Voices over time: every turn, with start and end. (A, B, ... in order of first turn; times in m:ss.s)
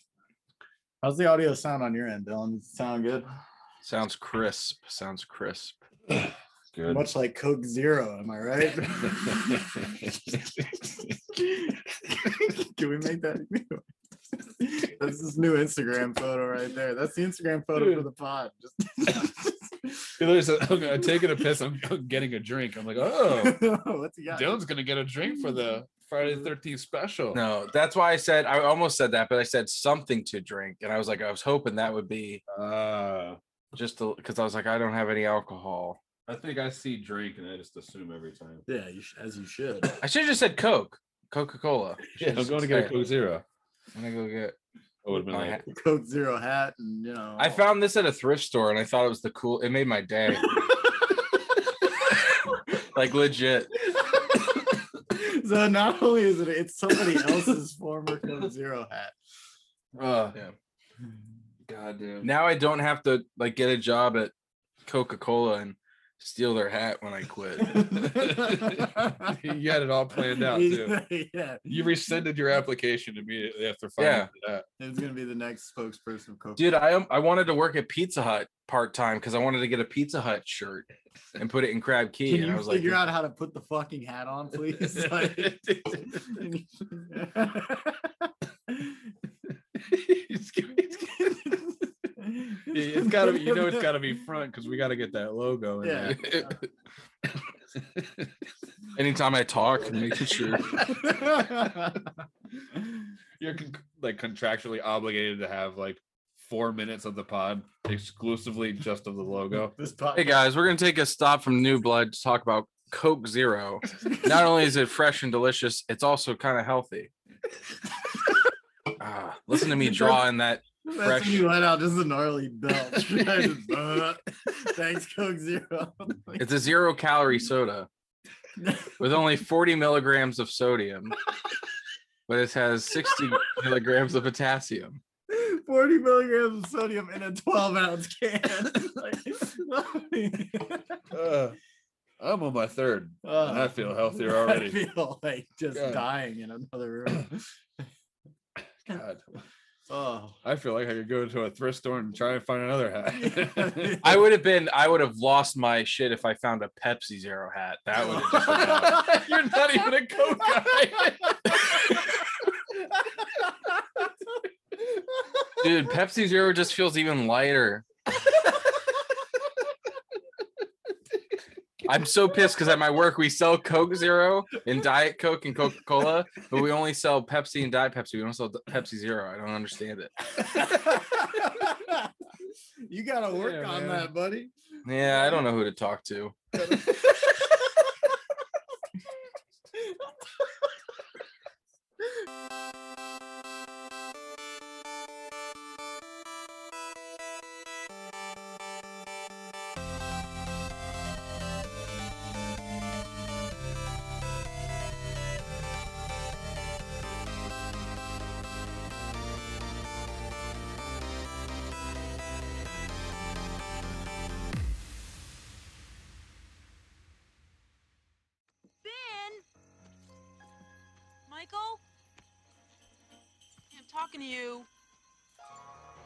0:01.0-0:03.3 A
0:03.8-0:05.8 B
0:06.1-0:07.1 C
0:06.9-0:10.0 A
0:09.3-0:10.9 C
0:11.3-0:13.8 A
0:14.4-0:20.1 A
0:17.7-0:18.1 C
0:20.2-0:23.6 C
0:23.2-0:24.6 A
0:24.3-0:27.4 C
0:27.3-0:32.4 B
0:32.5-0:33.4 C
0:33.7-0:36.0 B
0:36.2-0:38.6 C
0:38.7-0:40.0 A
0:40.0-0:42.9 B
0:42.2-0:43.4 C
0:43.9-0:44.6 B
0:45.0-0:45.6 C
0:45.1-0:45.6 B
0:45.6-0:47.6 A
0:47.4-0:50.6 B
0:50.4-0:51.0 A
0:52.8-0:53.7 B
0:53.9-0:59.1 A
0:59.9-1:00.4 C
1:01.6-1:02.3 C
1:02.2-1:04.3 B
1:04.8-1:08.0 B
1:07.7-1:09.4 A
1:07.8-1:11.0 C
1:10.2-1:11.7 A
1:11.6-1:14.6 C
1:14.0-1:14.3 B
1:14.8-1:16.7 A
1:16.6-1:23.0 B
1:22.3-1:28.1 A
1:24.7-1:26.4 C
1:29.7-1:31.6 C
1:32.2-1:33.9 A
1:32.6-1:36.2 C
1:35.8-1:36.4 A
1:36.0-1:36.6 B
1:37.7-1:38.3 C
1:38.9-1:40.8 B
1:40.7-1:42.0 A
1:43.4-1:49.8 C
1:49.8-1:50.4 A
1:50.1-1:57.1 B
1:59.0-2:01.5 B
1:59.8-2:00.2 A
2:00.8-2:06.5 A
2:02.9-2:03.2 C
2:06.4-2:07.9 B
2:08.6-2:08.9 A
2:09.0-2:11.2 B
2:12.3-2:15.0 B
2:15.3-2:21.0 A
2:21.1-2:21.6 C
2:22.2-2:24.8 C
2:23.2-2:27.5 A
2:25.7-2:26.0 C
2:28.9-2:29.2 C
2:29.9-2:30.4 A
2:30.4-2:34.0 C
2:33.1-2:34.3 A
2:34.0-2:39.0 B
2:38.1-2:39.2 A
2:38.2-2:41.8 C
2:45.6-2:47.8 B
2:51.8-3:00.4 B
3:00.4-3:02.1 A
3:02.8-3:04.5 A
3:03.4-3:03.8 C
3:03.8-3:04.0 B
3:04.8-3:06.6 B
3:06.6-3:07.0 A
3:38.8-3:39.4 D
3:41.3-3:41.8 D
3:43.7-3:44.7 D